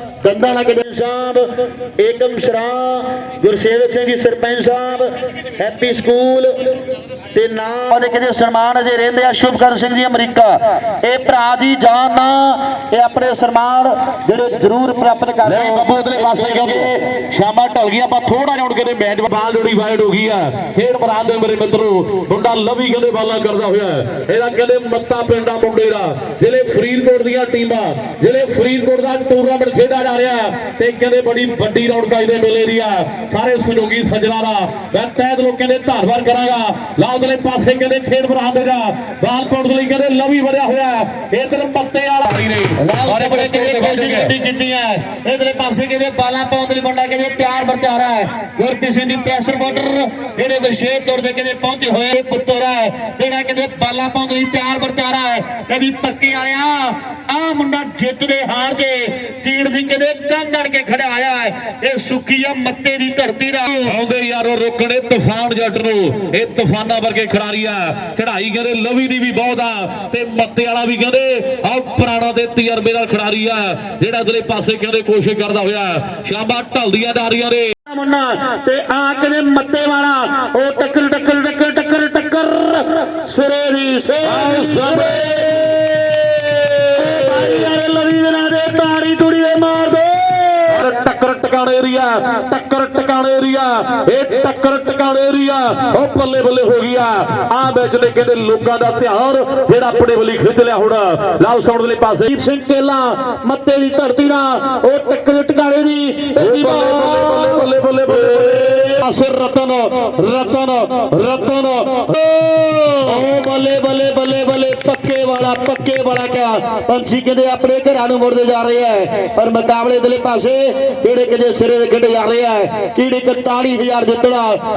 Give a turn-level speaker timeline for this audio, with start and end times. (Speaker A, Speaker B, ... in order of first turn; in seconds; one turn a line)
Speaker A: 0.2-1.4
Speaker A: 2.0-6.5
Speaker A: 7.3-17.1
Speaker B: 15.5-44.3
Speaker A: 42.8-64.0
Speaker B: 63.9-77.8
Speaker A: 77.9-85.8
Speaker B: 84.2-86.7
Speaker A: 87.0-90.9
Speaker B: 90.8-102.3
Speaker A: 102.3-124.6
Speaker B: 106.3-109.1
Speaker B: 110.6-112.1